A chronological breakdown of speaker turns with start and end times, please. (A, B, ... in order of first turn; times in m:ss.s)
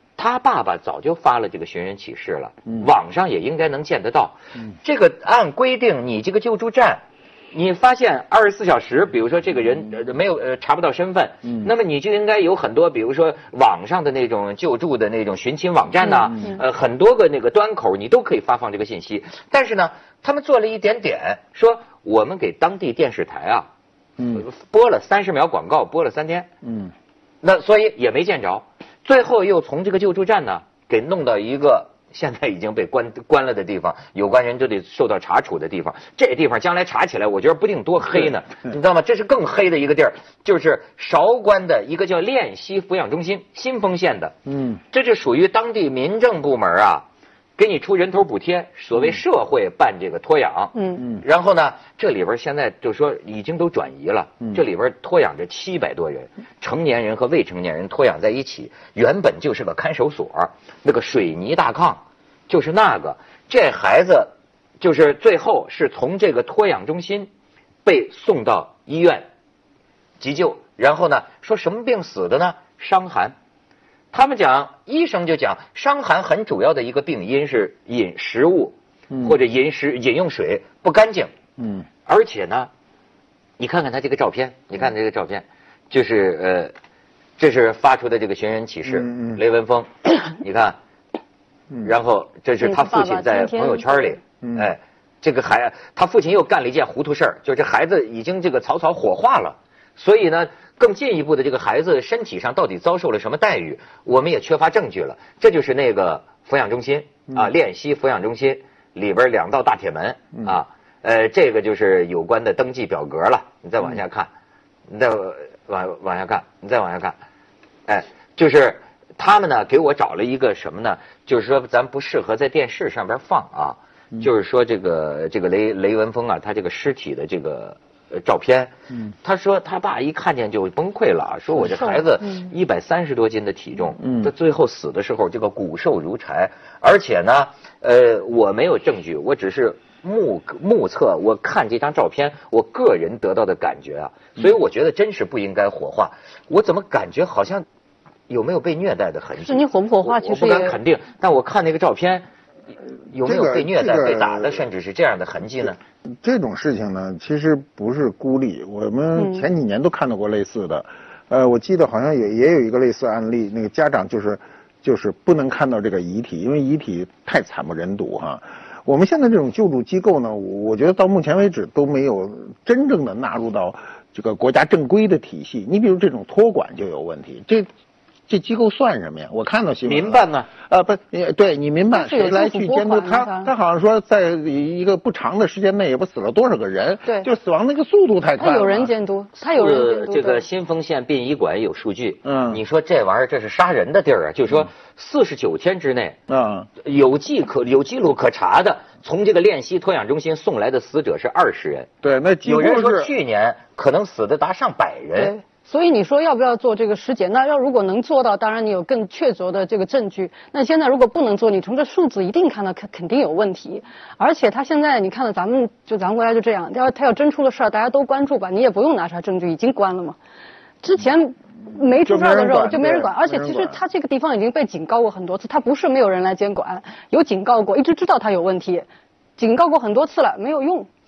0:00.2-0:23.7 A
0:16.2-0:16.5 B
0:24.2-0:24.4 C
0:24.3-0:26.5 A
0:26.6-0:26.9 C
0:27.4-0:44.4 A
0:44.5-0:44.8 C
0:44.9-0:47.0 A
0:47.6-1:07.3 A
0:50.8-0:51.0 B
1:07.8-1:09.3 A
1:10.2-1:13.4 A
1:14.1-1:21.3 A
1:19.1-1:19.4 C
1:21.6-1:21.9 C
1:22.1-1:22.7 A
1:23.6-1:26.7 A
1:27.4-1:30.8 A
1:28.9-1:29.4 C
1:31.8-1:54.3 A
1:32.6-1:34.2 B
1:34.4-1:34.7 C
1:54.9-1:57.2 A
1:57.9-2:08.7 A
2:09.2-2:27.7 A
2:14.0-2:14.3 C
2:28.3-2:32.3 A
2:29.4-2:30.8 B
2:33.1-2:35.8 A
2:33.2-2:34.7 C
2:36.1-2:57.7 C
2:39.2-2:39.5 B
2:58.3-3:08.9 C
2:59.9-3:00.5 A
3:01.9-3:03.5 B
3:08.4-3:10.4 B
3:09.4-3:16.2 A
3:12.2-3:12.6 C
3:16.3-3:16.7 C
3:16.8-3:21.9 A
3:22.0-3:23.1 C
3:22.4-3:25.3 A
3:25.2-3:40.2 B
3:40.8-3:48.9 B
3:42.1-3:43.8 C
3:49.4-3:50.9 B